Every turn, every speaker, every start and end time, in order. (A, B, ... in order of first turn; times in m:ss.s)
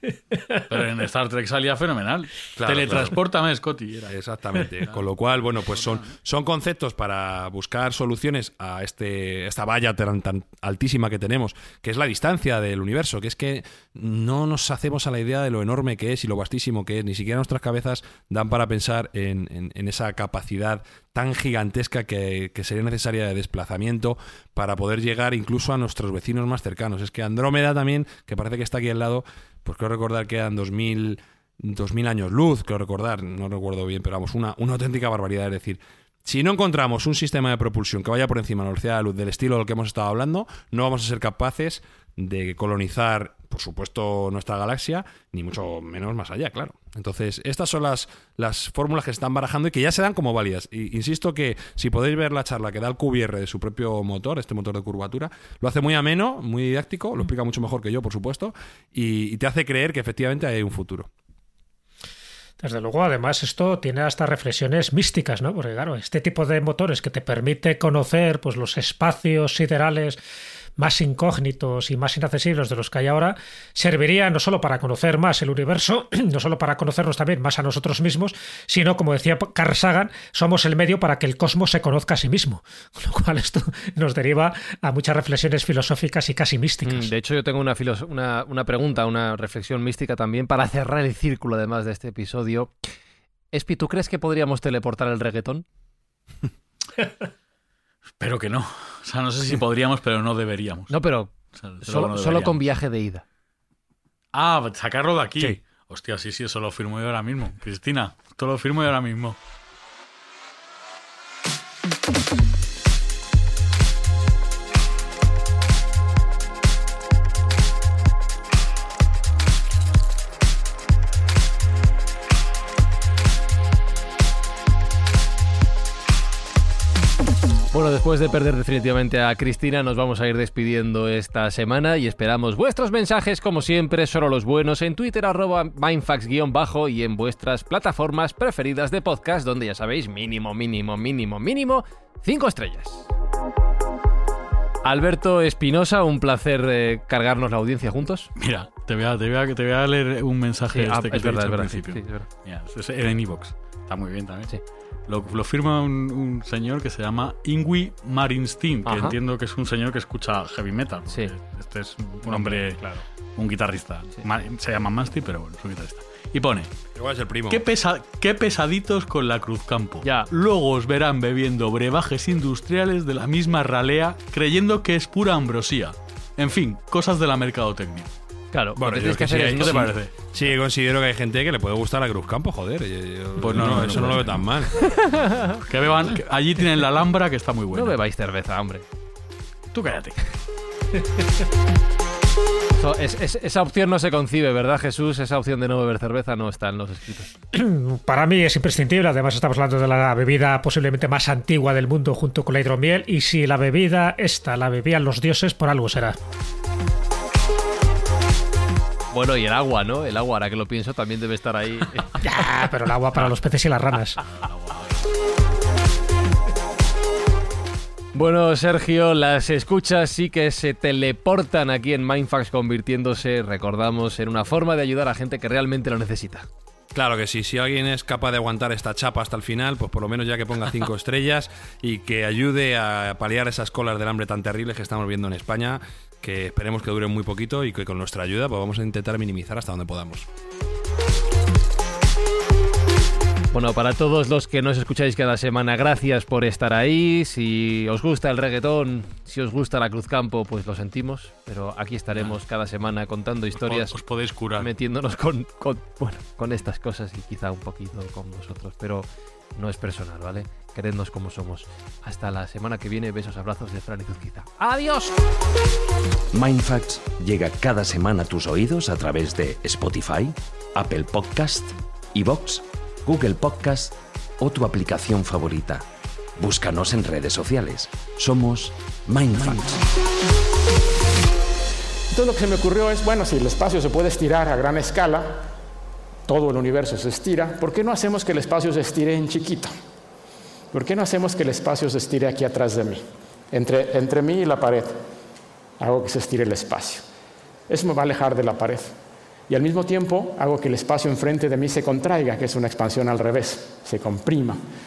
0:00.3-0:00.6 A
0:00.7-0:04.2 B
0:02.6-0:03.2 C
0:04.1-1:01.1 C
1:02.6-1:10.2 A
1:10.8-1:27.1 A
1:26.8-1:32.7 D
1:33.5-1:35.6 D
1:38.2-1:40.9 B
1:40.9-1:43.2 D
1:41.6-1:42.6 B
1:44.3-1:49.4 B
2:07.7-2:23.1 D
2:24.8-2:28.3 D
2:28.4-2:34.5 B
2:30.7-2:32.3 D
2:35.1-2:42.8 B
2:38.9-2:39.2 D
2:42.2-2:43.0 D
2:43.4-2:46.7 B
2:47.0-2:47.6 C
2:47.5-2:58.1 B
2:50.0-2:50.3 D
2:58.5-2:59.9 D
2:58.8-3:04.9 C
2:59.3-3:00.1 B
3:03.4-3:04.4 B
3:03.6-3:04.1 D
3:05.0-3:05.5 D
3:05.6-3:08.0 B
3:07.7-3:08.8 D
3:09.7-3:10.2 B
3:12.8-3:17.3 D
3:17.5-3:26.2 A
3:29.1-3:32.2 D
3:32.2-3:34.2 A
3:34.3-3:34.9 B
3:38.1-3:46.5 D
3:46.9-4:00.3 C
4:03.5-4:14.0 D
4:13.6-4:14.7 B
4:14.6-4:25.1 D
4:26.3-4:35.8 E
4:36.4-4:39.8 E
4:42.1-4:45.5 F
4:46.3-4:49.7 F
4:50.7-4:55.0 F
4:55.8-4:57.1 F
4:57.7-4:58.9 F
4:59.5-5:04.6 F